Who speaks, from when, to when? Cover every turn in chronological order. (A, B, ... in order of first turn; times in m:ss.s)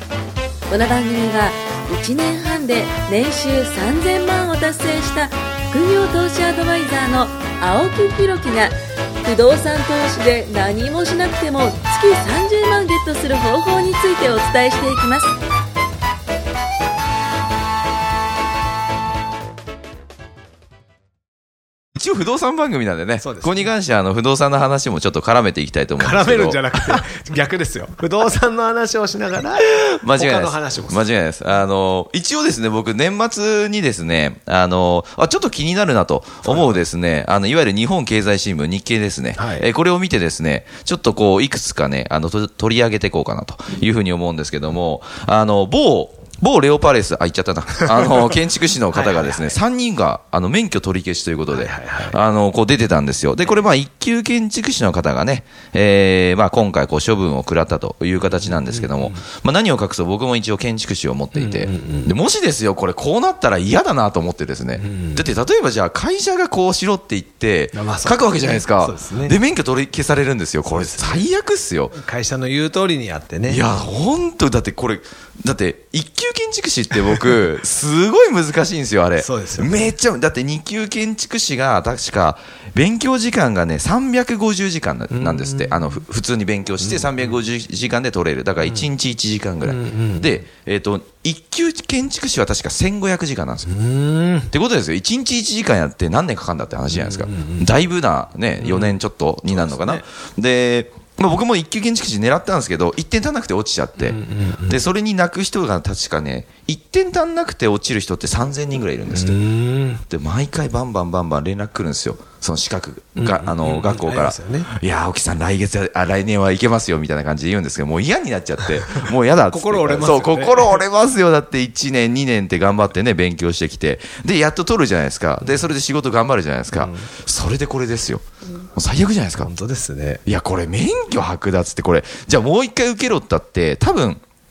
0:00.7-0:15.3 A
0:22.0-0:27.0 B
0:23.2-0:23.7 C
0:26.0-0:31.0 C
0:29.6-1:12.0 B
0:39.4-0:39.6 C
0:48.9-0:49.6 C
0:51.5-0:52.2 C
0:58.3-0:59.2 C
1:01.3-1:02.1 C
1:04.8-1:05.3 C
1:07.7-1:09.4 C
1:10.6-1:11.3 C
1:11.9-1:13.7 C
1:13.5-1:33.7 B
1:19.2-1:20.0 C
1:25.1-1:26.0 C
1:26.8-1:27.4 C
1:29.6-1:30.4 C
1:33.7-1:34.5 C
1:34.5-1:49.4 B
1:36.9-1:37.7 C
1:38.6-1:40.0 C
1:44.0-1:44.8 C
1:49.1-1:50.0 C
1:50.1-2:08.2 B
1:53.2-1:54.7 C
1:59.5-2:00.8 C
2:05.4-2:05.7 C
2:06.8-2:07.1 C
2:08.8-2:09.5 B
2:09.4-2:10.2 C
2:10.2-2:14.2 B